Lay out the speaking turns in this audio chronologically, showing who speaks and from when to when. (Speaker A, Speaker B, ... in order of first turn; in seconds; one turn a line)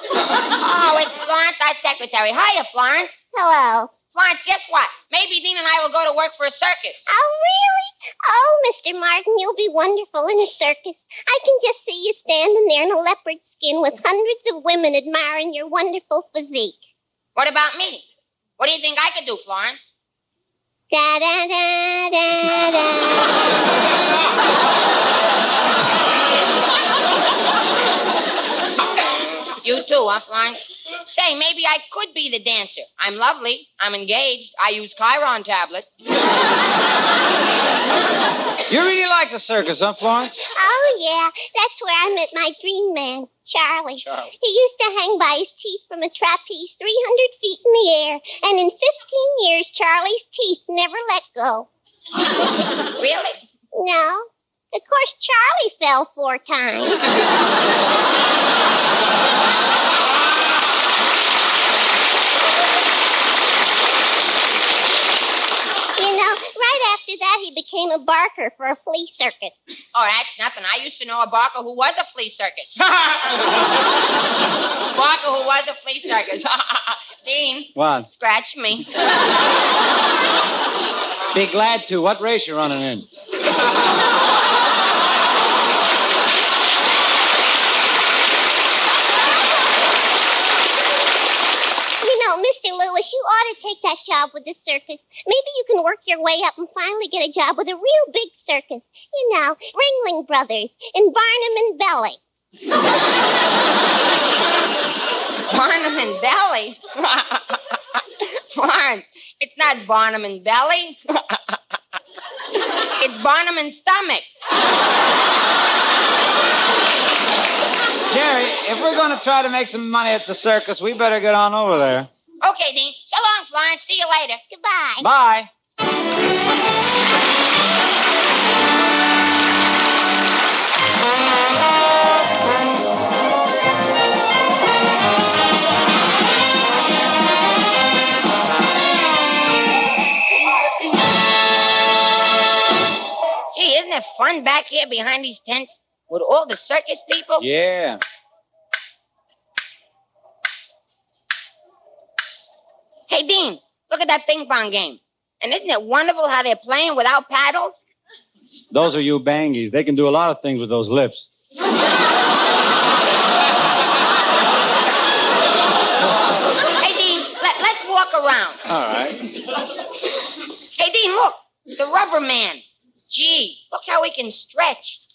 Speaker A: 0.4-3.2
Speaker B: 3.3-4.0
Speaker A: 4.0-7.0
Speaker B: 7.1-16.8
Speaker A: 17.4-18.1
Speaker A: 18.6-19.8
Speaker B: 20.9-23.4
Speaker A: 29.6-35.9
Speaker C: 38.7-40.4
Speaker B: 40.6-51.7
Speaker A: 53.0-53.4
Speaker B: 53.7-57.0
Speaker B: 66.0-69.5
Speaker A: 69.9-73.5
Speaker A: 74.9-78.9
Speaker C: 77.8-78.1
Speaker C: 81.3-83.1
Speaker B: 92.0-102.2
Speaker A: 105.5-107.8
Speaker A: 108.5-111.6
Speaker A: 113.0-114.2
Speaker C: 118.1-122.1
Speaker A: 122.4-124.4
Speaker B: 124.5-125.0
Speaker C: 125.0-125.5
Speaker A: 143.5-147.4
Speaker C: 147.4-148.0
Speaker A: 153.1-157.8
Speaker C: 158.7-161.3
Speaker A: 166.8-168.6
Speaker C: 168.7-169.3
Speaker A: 170.8-175.0